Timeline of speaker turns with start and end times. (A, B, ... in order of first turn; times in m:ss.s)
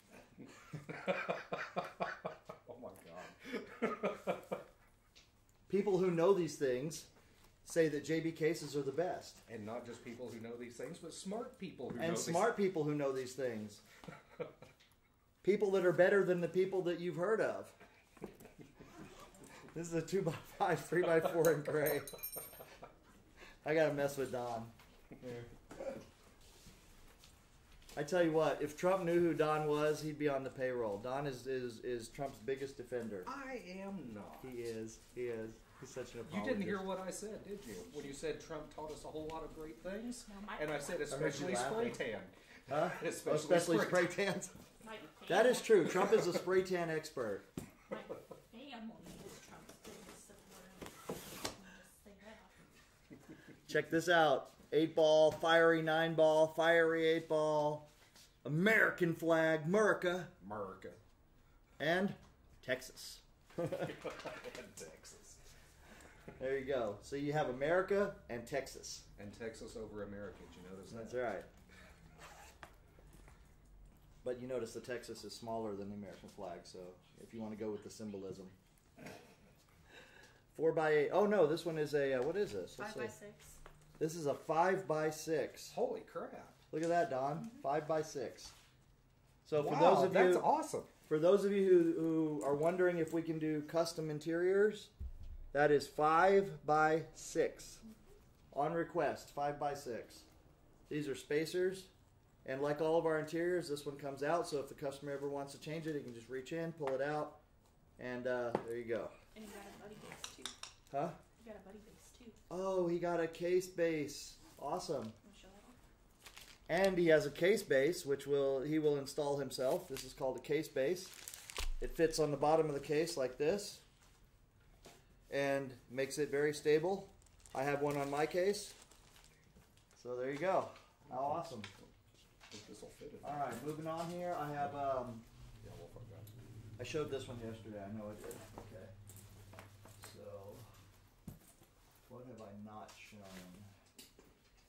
0:00.9-0:02.1 A
0:02.7-0:04.6 A
0:05.7-0:07.1 B
0:07.6-0:09.4 B
0:09.5-0:12.6 A
0:12.0-0:13.8 B
0:15.4-0:17.8 B
0:19.7-0:22.1 B
0:23.6-0:24.7 B
0:28.0-0:33.3 B
0:33.3-0:34.6 A
0:34.4-0:36.9 B
0:36.2-0:44.4 A
0:40.3-0:40.9 C
0:41.1-0:42.0 B
0:42.7-0:44.5 B
0:44.8-0:46.2 C
0:45.3-0:47.5 B
0:47.9-0:52.7 C
0:53.7-0:57.9 B
0:58.4-1:00.3 B
1:00.4-1:01.0 A
1:01.8-1:03.9 B
1:03.8-1:05.4 A
1:06.4-1:09.1 B
1:09.2-1:11.3 A
1:10.9-1:11.5 B
1:14.2-1:18.5 B
1:20.5-1:23.2 B
1:22.8-1:23.6 C
1:24.0-1:25.8 B
1:25.7-1:26.6 A
1:26.7-1:28.5 B
1:29.4-1:30.5 B
1:29.5-1:30.9 A
1:31.1-1:34.9 B
1:35.5-1:37.8 B
1:38.5-1:40.3 B
1:40.9-1:41.9 B
1:42.4-1:47.4 B
1:48.0-1:49.1 B
1:49.3-1:50.5 C
1:50.9-1:51.2 B
1:51.4-1:52.4 C
1:52.5-1:55.2 B
1:55.2-1:55.8 C
1:56.7-2:01.2 B
2:01.8-2:03.8 B
2:05.3-2:08.8 B
2:10.0-2:11.7 B
2:12.5-2:13.5 A
2:13.2-2:15.2 B
2:15.6-2:16.3 A
2:16.8-2:18.9 B
2:20.0-2:20.7 B
2:22.0-2:23.7 B